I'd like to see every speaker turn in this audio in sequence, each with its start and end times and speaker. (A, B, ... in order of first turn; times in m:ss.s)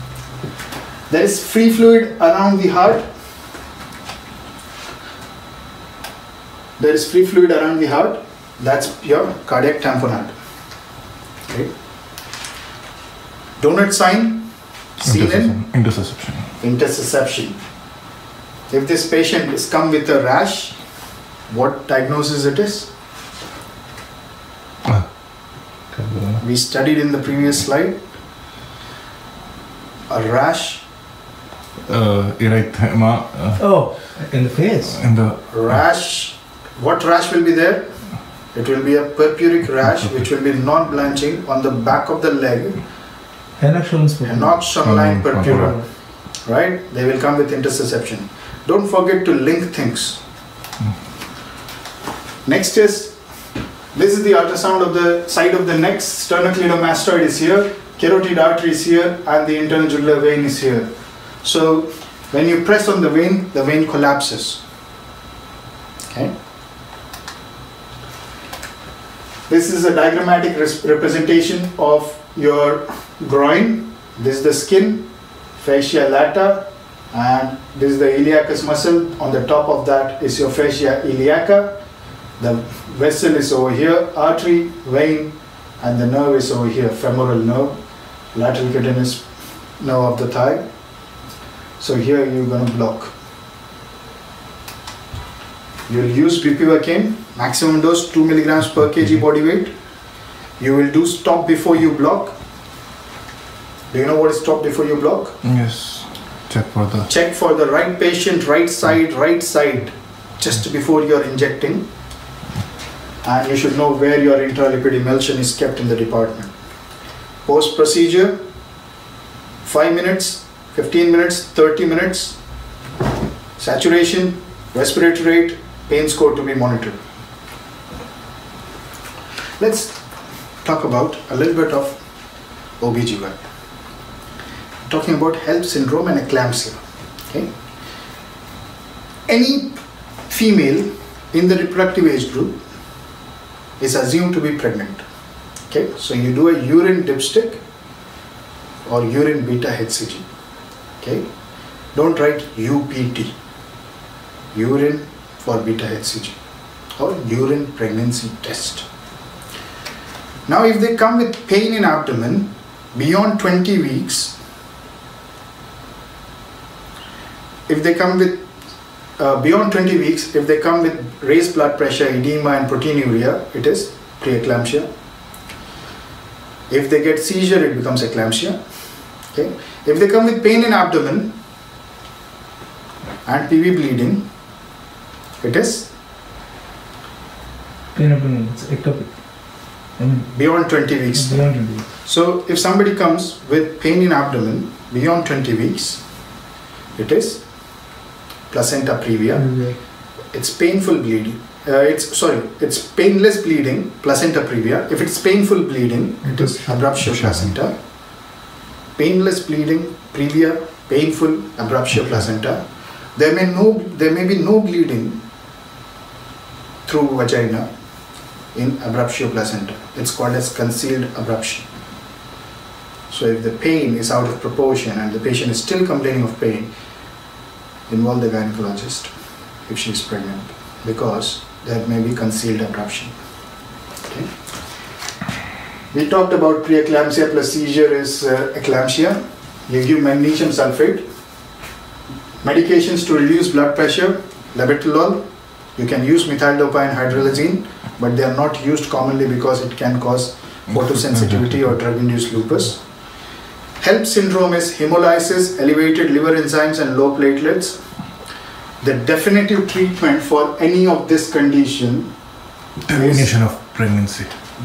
0:01.1-0:03.0 A
0:06.8-0:10.3 A
0:13.6-0:15.6 A
0:15.0-0:16.5 B
0:16.6-0:17.6 A
0:18.7-0:20.8 A
0:21.5-0:22.9 A
0:25.9-0:26.4 B
0:26.4-0:28.0 A
0:30.1-0:30.8 A
0:31.9-0:33.6 B
0:33.6-0:35.0 C
0:34.9-0:35.5 B
0:35.5-0:37.9 A
0:38.5-0:42.8 A
0:43.6-0:44.5 C
0:44.2-0:45.8 A
0:44.8-0:45.7 B
0:45.5-0:45.8 C
0:46.4-0:50.2 A
0:52.4-0:53.2 A
0:53.9-1:00.9 A
1:01.4-1:04.6 A
1:09.5-1:15.1 A
1:15.6-1:21.8 A
1:22.4-1:27.7 A
1:28.3-1:29.2 A
1:29.8-1:30.6 A
1:31.8-1:33.1 A
1:35.9-1:39.7 A
1:40.6-1:42.3 A
1:43.9-1:45.4 A
1:45.4-1:47.1 B
1:47.1-1:51.8 A
1:53.2-1:56.5 A
1:57.4-1:58.4 A
1:59.6-2:02.4 A
2:03.6-2:07.0 A
2:09.6-2:10.0 A
2:10.6-2:12.0 A
2:12.8-2:13.4 A
2:14.9-2:16.8 A
2:19.3-2:22.5 A
2:23.8-2:25.0 A
2:25.7-2:27.6 A
2:28.9-2:30.2 A
2:31.0-2:31.3 A
2:31.9-2:33.3 A
2:34.5-2:36.4 A
2:37.0-2:38.9 A
2:40.5-2:44.3 A
2:47.7-2:48.4 A
2:49.2-2:54.9 A
2:56.7-2:58.6 A
2:59.3-3:01.3 A
3:03.2-3:04.2 A
3:05.4-3:05.9 A
3:07.9-3:09.1 C
3:10.0-3:10.3 C
3:10.3-3:16.0 A
3:11.1-3:11.8 C
3:17.0-3:17.4 A
3:18.5-3:19.6 A
3:19.4-3:19.7 C
3:20.3-3:27.8 A
3:29.0-3:32.6 A
3:33.2-3:35.2 A
3:36.8-3:37.7 A
3:38.5-3:41.7 A
3:43.1-3:46.7 A
3:47.9-3:49.1 A
3:49.7-3:53.1 A
3:55.9-4:01.0 A
4:02.4-4:05.2 A
4:05.8-4:12.8 A
4:13.8-4:17.8 A
4:18.8-4:22.1 A
4:22.9-4:24.3 B
4:22.9-4:23.3 A